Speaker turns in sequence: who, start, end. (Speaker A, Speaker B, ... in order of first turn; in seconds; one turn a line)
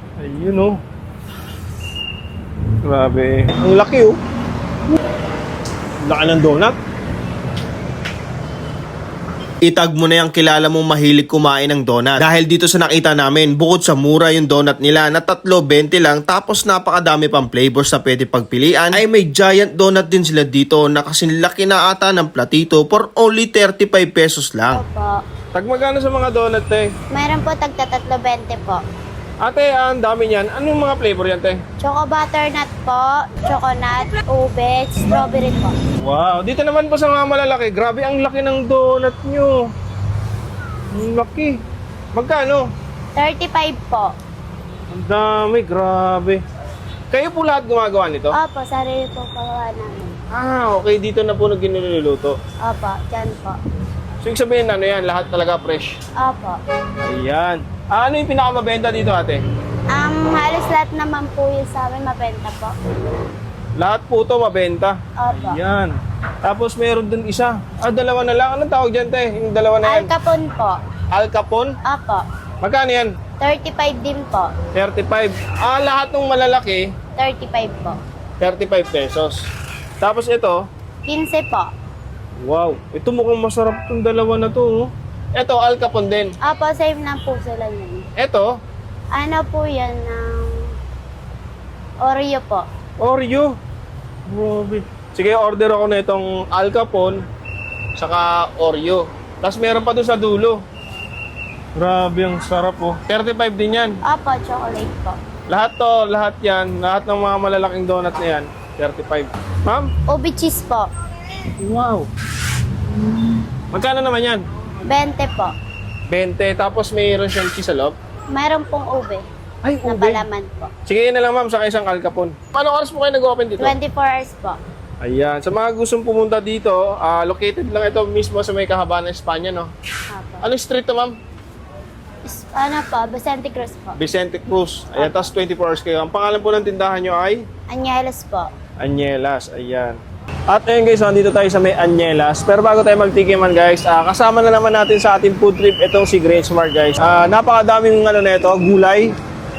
Speaker A: 0.2-0.8
Speaker A: 2.8-4.2
Speaker A: 6.0-6.8
Speaker B: 9.7-24.8
Speaker C: 24.7-25.2
Speaker A: 25.5-26.9
Speaker C: 27.1-28.8
Speaker A: 29.4-31.6
Speaker C: 31.8-35.8
Speaker A: 36.0-39.6
Speaker A: 40.9-41.6
Speaker A: 42.1-42.7
Speaker C: 43.2-44.1
Speaker A: 44.9-46.4
Speaker A: 47.1-48.4
Speaker C: 48.4-50.2
Speaker A: 50.3-52.4
Speaker C: 52.6-53.6
Speaker A: 54.2-55.9
Speaker C: 56.2-56.6
Speaker A: 57.0-59.4
Speaker C: 59.9-62.7
Speaker A: 63.8-65.9
Speaker C: 65.2-65.6
Speaker A: 66.4-70.1
Speaker C: 69.8-70.8
Speaker A: 71.1-71.7
Speaker C: 71.8-72.2
Speaker A: 72.6-73.1
Speaker C: 73.4-74.5
Speaker A: 74.7-76.9
Speaker C: 77.2-78.0
Speaker A: 78.4-79.4
Speaker A: 80.0-80.6
Speaker C: 81.1-81.7
Speaker A: 82.4-86.3
Speaker C: 86.4-88.0
Speaker A: 88.2-88.5
Speaker C: 89.1-90.7
Speaker C: 92.0-92.7
Speaker A: 93.0-93.5
Speaker A: 94.3-97.2
Speaker A: 98.0-100.6
Speaker A: 101.8-104.0
Speaker C: 104.1-105.2
Speaker A: 105.5-109.9
Speaker C: 110.1-110.9
Speaker A: 111.6-112.1
Speaker A: 113.7-114.4
Speaker C: 114.8-115.5
Speaker A: 116.1-118.0
Speaker C: 118.3-119.2
Speaker A: 119.6-120.2
Speaker C: 119.8-120.7
Speaker A: 120.8-123.8
Speaker C: 123.6-124.6
Speaker A: 125.0-129.7
Speaker C: 130.1-130.4
Speaker A: 130.4-131.1
Speaker C: 132.3-134.0
Speaker A: 133.9-137.4
Speaker C: 135.0-135.3
Speaker C: 137.7-138.5
Speaker A: 138.8-140.0
Speaker A: 140.5-149.1